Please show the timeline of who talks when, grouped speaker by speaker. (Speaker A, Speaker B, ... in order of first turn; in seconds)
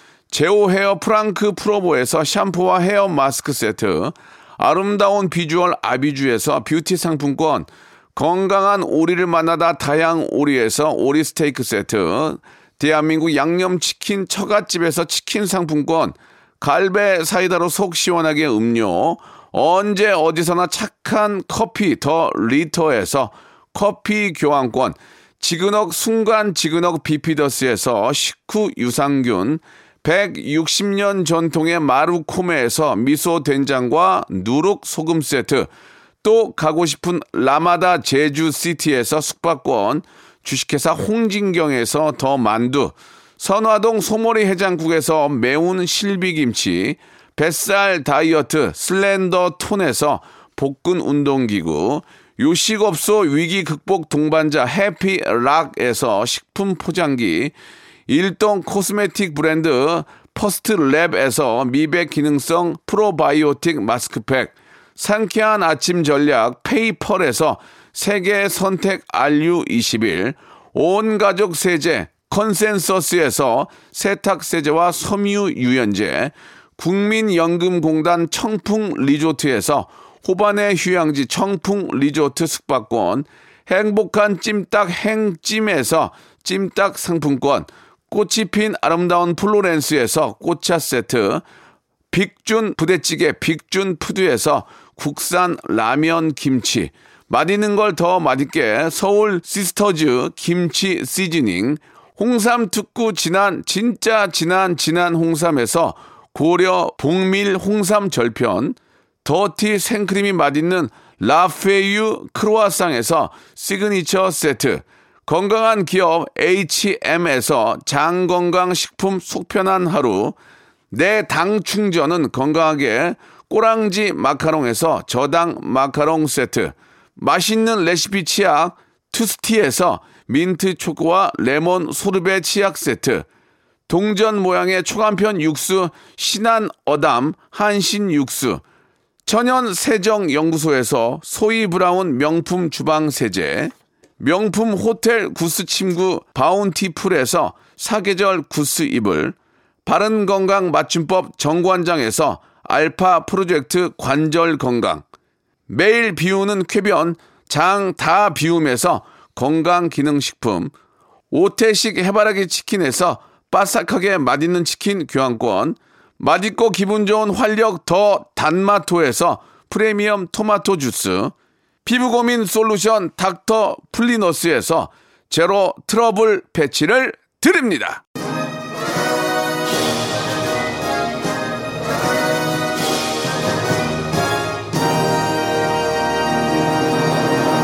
Speaker A: 0.3-35.7, 36.2-57.5, 58.1-91.4, 92.1-120.4, 120.9-133.2, 133.9-138.6, 139.2-155.0, 155.7-160.7, 161.3-171.3, 171.8-178.0